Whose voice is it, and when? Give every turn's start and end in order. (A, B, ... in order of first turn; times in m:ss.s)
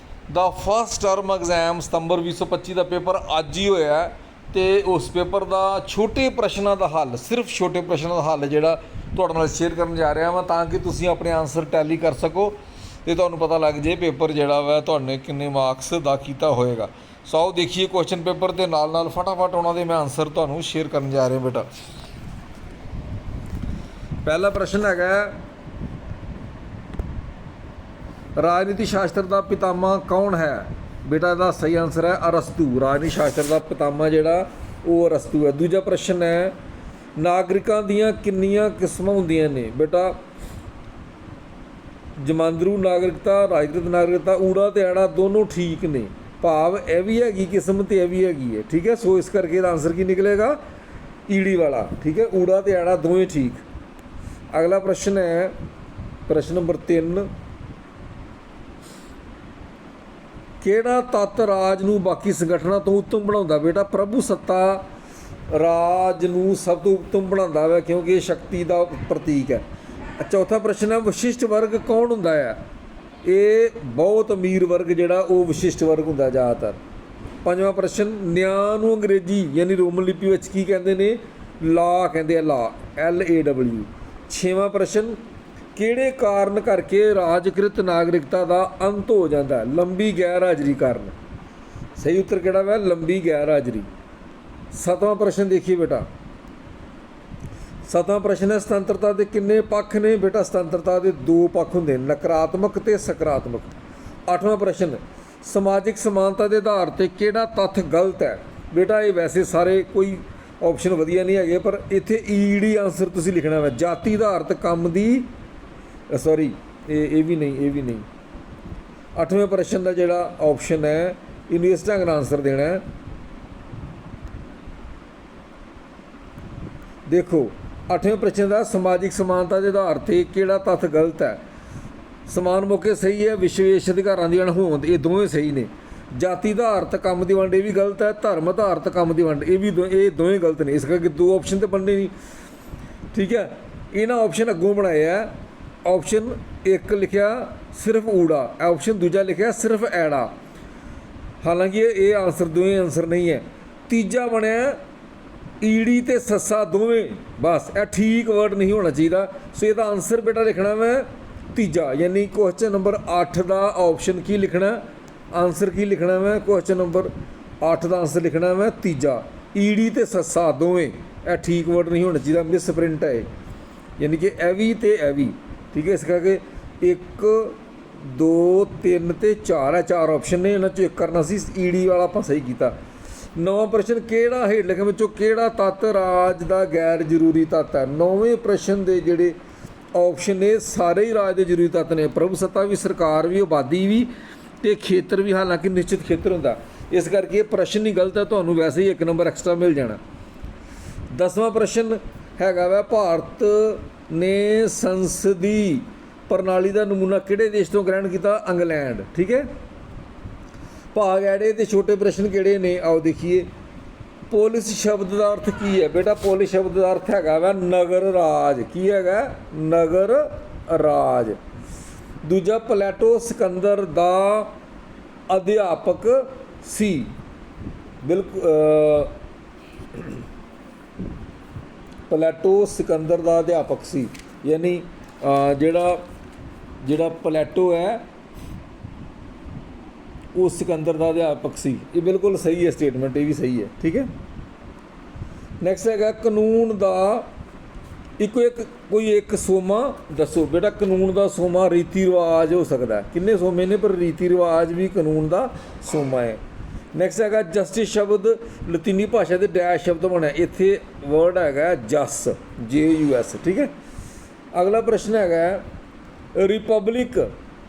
0:00.3-0:21.7 A
0:24.2-0:25.3 A
0:28.4-0:36.5 A
0:37.2-0:40.2 A
0:42.2-0:50.6 A
0:51.3-0:53.6 A
0:54.5-0:55.5 A
0:56.3-0:57.3 A
1:00.6-1:04.8 A
1:05.5-1:09.6 A
1:10.2-1:12.6 A
1:13.2-1:16.8 A
1:17.4-1:25.2 A
1:25.8-1:31.1 A
1:32.0-1:33.9 A
1:34.7-1:36.0 A
1:37.8-1:43.7 A
1:44.3-1:55.3 A
1:56.1-1:58.0 A
1:59.2-2:02.8 A
2:07.1-2:11.4 A
2:12.3-2:22.1 A
2:23.1-2:25.3 A
2:25.8-2:30.3 A
2:31.4-2:34.8 A
2:35.6-2:44.8 A
2:45.3-2:47.1 A
2:47.6-2:53.3 A
2:54.0-3:02.7 A
3:03.4-3:09.4 A
3:09.9-3:14.1 A
3:14.6-3:20.0 A
3:21.1-3:29.5 A
3:30.9-3:33.5 A
3:34.3-3:41.4 A
3:42.2-3:44.5 A
3:45.3-3:47.1 A
3:48.0-3:49.1 A
3:52.1-3:56.0 A
3:56.8-3:58.0 A
4:00.3-4:04.1 A
4:05.6-4:07.3 A
4:08.2-4:16.4 A
4:16.9-4:23.7 A
4:24.5-4:25.6 A
4:26.3-4:27.3 A